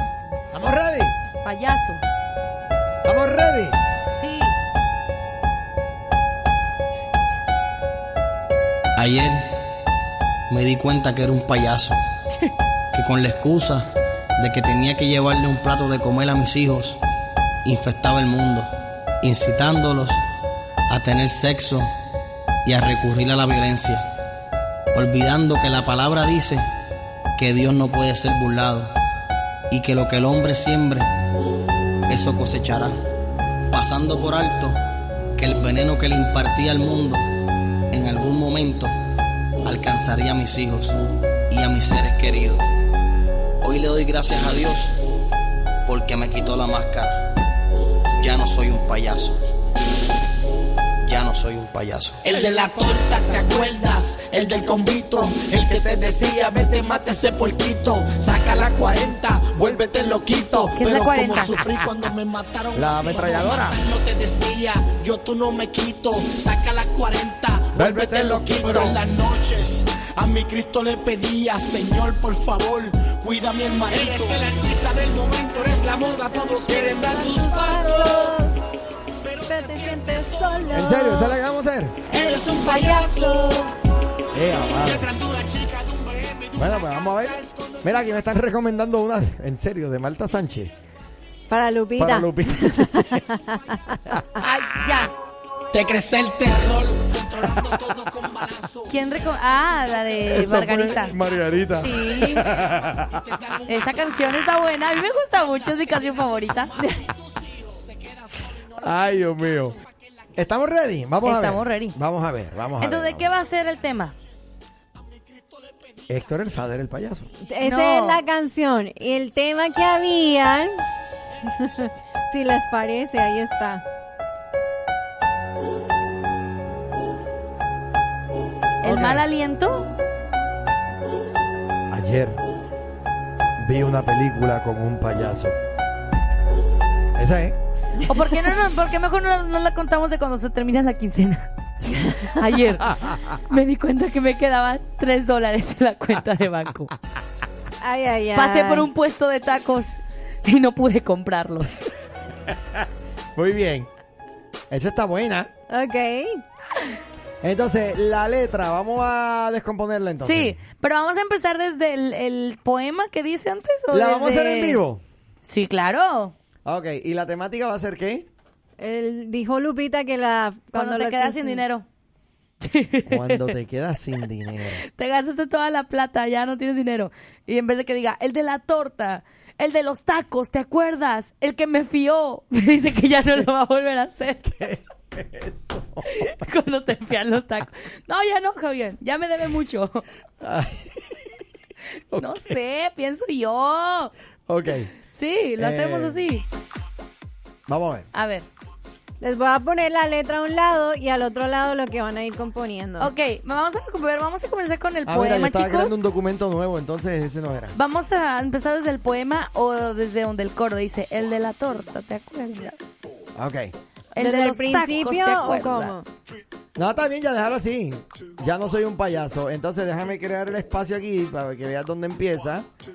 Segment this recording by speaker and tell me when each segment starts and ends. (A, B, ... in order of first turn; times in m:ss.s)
0:00.5-0:01.2 A
0:01.4-0:02.0 B
0:03.0-0:03.8 A
0:04.2-0:04.5 B
0:09.0-0:09.6 C
0:10.5-0:12.0 C
0:12.9-0:17.0 C
0:17.6-0:20.2 C
0:20.9-0:21.9 C
0:22.6-0:24.1 C
0:24.9-0:26.7 C
0:27.4-0:28.9 C
0:29.7-0:31.1 C
0:32.1-0:33.0 C
0:33.7-0:34.8 C
0:35.4-0:37.3 C
0:37.9-0:39.0 C
0:39.6-0:42.6 C
0:43.6-0:45.0 C
0:45.8-0:47.3 C
0:48.2-0:49.4 C
0:51.0-0:52.2 C
0:52.2-1:18.4 D
1:00.8-1:01.5 B
1:02.8-1:03.8 A
1:07.8-1:09.0 A
1:13.9-1:14.4 A
1:16.7-1:18.7 E
1:19.2-1:21.2 D
1:19.5-1:21.4 E
1:20.7-1:22.0 A
1:22.1-1:23.7 E
1:22.1-1:23.7 D
1:24.3-1:25.1 A
1:24.8-1:27.9 D
1:26.6-1:30.7 A
1:31.5-1:34.4 E
1:32.0-1:33.2 A
1:34.4-1:35.1 B
1:35.7-1:38.9 D
1:38.9-1:41.1 B
1:40.3-1:43.3 A
1:41.8-1:42.5 B
1:42.9-1:44.0 D
1:43.7-1:46.7 B
1:46.8-1:48.9 D
1:48.8-1:49.8 A
1:50.4-1:53.3 A
1:51.2-1:52.0 B
1:52.8-1:54.1 B
1:55.4-1:55.8 D
1:56.1-1:57.3 A
1:57.5-2:00.8 E
1:57.6-1:58.2 B
2:01.6-2:03.8 E
2:08.8-2:09.9 B
2:08.8-2:09.2 A
2:11.9-2:12.4 A
2:13.6-2:15.6 A
2:17.2-2:17.6 A
2:18.1-2:21.5 B
2:22.2-2:26.9 B
2:27.8-2:28.9 E
2:28.4-2:31.9 B
2:32.7-2:33.9 A
2:34.7-2:35.5 A
2:35.7-2:36.4 E
2:37.4-2:40.6 A
2:40.2-2:44.8 B
2:43.9-2:45.0 A
2:45.4-2:46.3 B
2:46.6-2:48.3 A
2:48.8-2:51.6 E
2:50.7-2:51.8 B
2:52.6-2:53.6 B
2:53.1-2:54.8 A
2:54.8-3:04.5 B
3:04.5-3:06.3 A
3:06.1-3:10.0 B
3:10.4-3:11.0 A
3:12.1-3:12.6 A
3:12.2-3:14.1 B
3:14.5-3:14.9 A
3:15.1-3:16.4 B
3:15.6-3:16.2 A
3:17.7-3:18.1 A
3:18.1-3:18.5 B
3:19.2-3:23.1 E
3:23.0-3:26.0 B
3:25.0-3:27.7 A
3:27.7-3:32.8 B
3:33.4-3:33.7 A
3:34.2-3:36.0 B
3:34.2-3:36.1 E
3:36.8-3:42.7 A